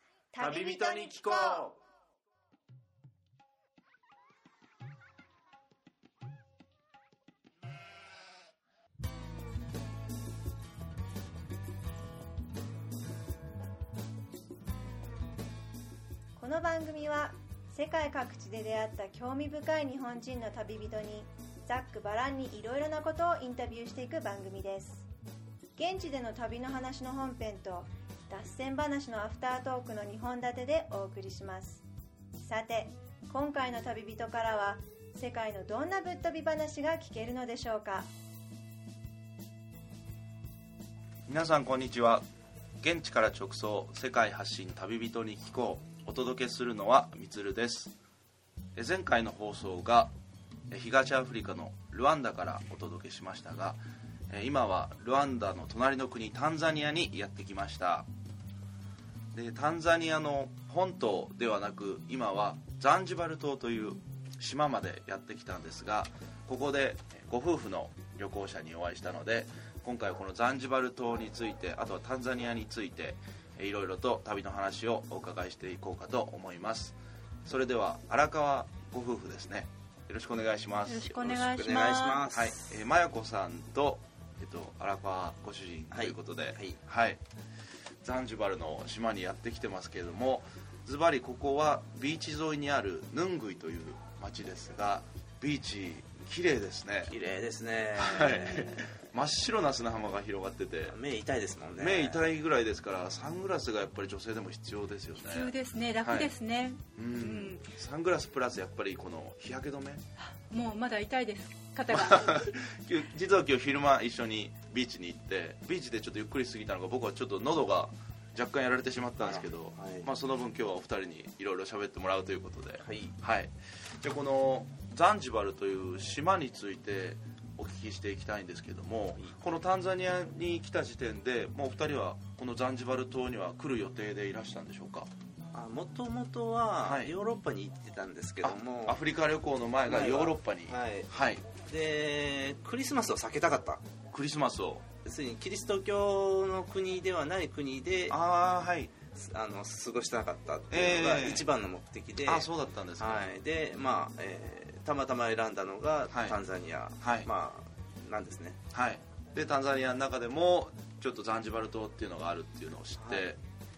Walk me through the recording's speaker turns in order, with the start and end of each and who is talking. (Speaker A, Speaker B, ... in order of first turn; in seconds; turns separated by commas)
Speaker A: 0.3-1.7, Speaker A: 16.4-25.1, Speaker A: 25.8-31.8, Speaker A: 32.4-38.1, Speaker B: 41.3-42.2, Speaker B: 42.8-47.9, Speaker B: 48.7-50.1, Speaker B: 50.7-58.1, Speaker B: 59.3-81.6, Speaker C: 80.8-82.3, Speaker D: 81.2-82.6, Speaker B: 82.3-87.2, Speaker D: 85.9-86.8, Speaker B: 88.0-97.1, Speaker D: 97.1-99.0, Speaker B: 98.0-101.0, Speaker D: 100.9-102.3, Speaker B: 101.8-106.3, Speaker C: 105.2-107.7, Speaker B: 107.0-110.0, Speaker C: 110.2-112.5, Speaker B: 111.9-135.1, Speaker D: 119.2-120.1, Speaker D: 122.8-123.2, Speaker D: 135.5-139.0, Speaker B: 136.8-137.1, Speaker B: 138.4-141.4, Speaker D: 139.9-143.8, Speaker B: 144.1-144.9, Speaker D: 145.0-148.2, Speaker B: 148.1-149.0, Speaker D: 149.1-158.6, Speaker B: 150.7-151.5, Speaker B: 152.2-153.3, Speaker B: 156.1-156.4, Speaker B: 157.0-157.3, Speaker B: 158.7-163.4, Speaker D: 163.0-163.3